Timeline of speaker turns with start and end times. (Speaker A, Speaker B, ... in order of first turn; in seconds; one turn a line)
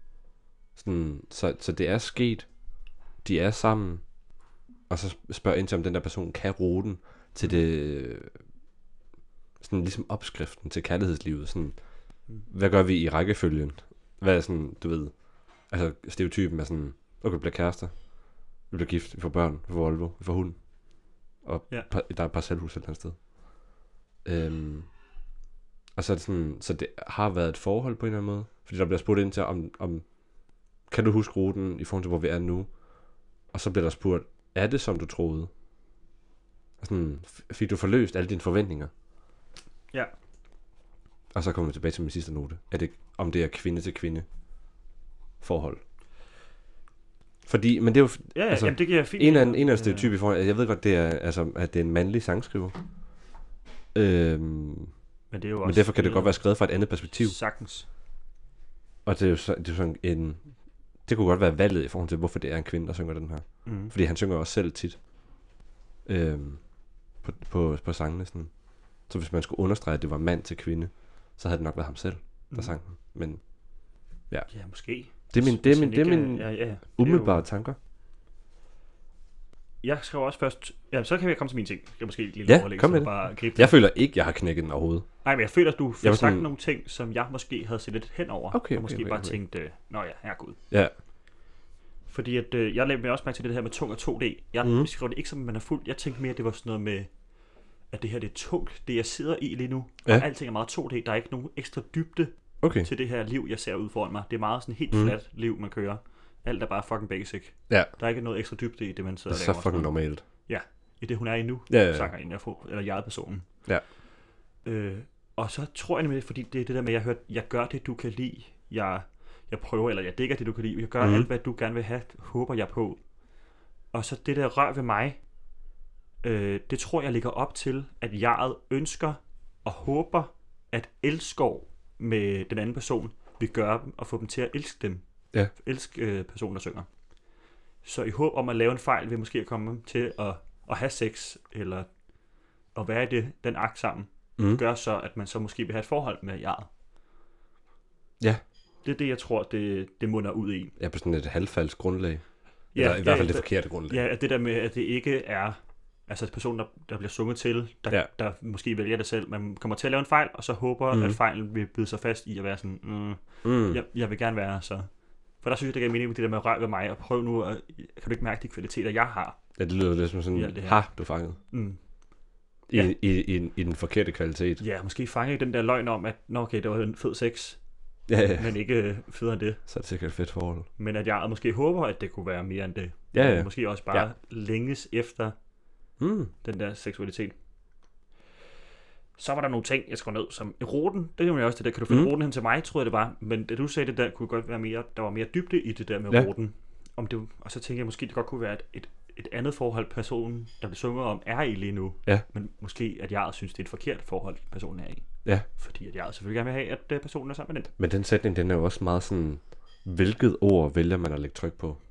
Speaker A: 0.8-2.5
Speaker A: 3.2-4.0
Speaker A: 4.9-8.3
Speaker A: 9.6-11.8
Speaker A: 12.5-15.1
Speaker A: 15.7-17.9
Speaker A: 18.7-20.6
Speaker A: 21.4-23.2
Speaker A: 24.2-24.9
Speaker A: 26.0-30.1
Speaker A: 30.9-32.7
Speaker A: 33.5-35.5
Speaker A: 36.8-38.9
Speaker A: 41.3-44.3
Speaker A: 45.4-45.8
Speaker A: 47.5-52.8
Speaker B: 48.3-50.1
Speaker A: 53.9-54.9
Speaker B: 55.3-56.4
Speaker A: 55.6-57.4
Speaker B: 57.2-57.9
Speaker A: 59.0-60.4
Speaker A: 61.1-65.0
Speaker B: 63.6-63.9
Speaker A: 66.1-66.6
Speaker A: 67.2-68.5
Speaker A: 69.1-73.4
Speaker B: 74.5-77.4
Speaker A: 75.3-77.8
Speaker B: 79.8-83.8
Speaker A: 82.5-85.1
Speaker B: 85.2-90.6
Speaker A: 86.0-86.5
Speaker A: 88.5-89.4
Speaker B: 92.1-97.1
Speaker A: 94.6-94.9
Speaker B: 97.9-113.5
Speaker A: 102.6-102.9
Speaker A: 109.3-110.2
Speaker A: 111.7-112.1
Speaker B: 114.6-123.0
Speaker A: 121.0-121.3
Speaker B: 123.9-125.2
Speaker B: 126.2-136.9
Speaker B: 137.8-141.9
Speaker B: 142.8-146.7
Speaker B: 148.8-150.8
Speaker A: 150.8-152.2
Speaker A: 152.7-154.0
Speaker B: 152.7-164.9
Speaker A: 160.9-161.2
Speaker A: 163.4-163.8
Speaker B: 165.4-169.4
Speaker A: 169.6-171.4
Speaker B: 170.3-170.8
Speaker B: 171.5-171.8
Speaker A: 172.7-174.6
Speaker B: 174.6-177.6
Speaker A: 178.1-178.5
Speaker B: 178.4-179.6
Speaker A: 179.7-180.7
Speaker B: 180.8-185.3
Speaker A: 183.1-184.1
Speaker A: 186.0-186.3
Speaker B: 186.4-187.3
Speaker B: 189.2-205.1
Speaker B: 205.6-207.7
Speaker A: 207.8-211.8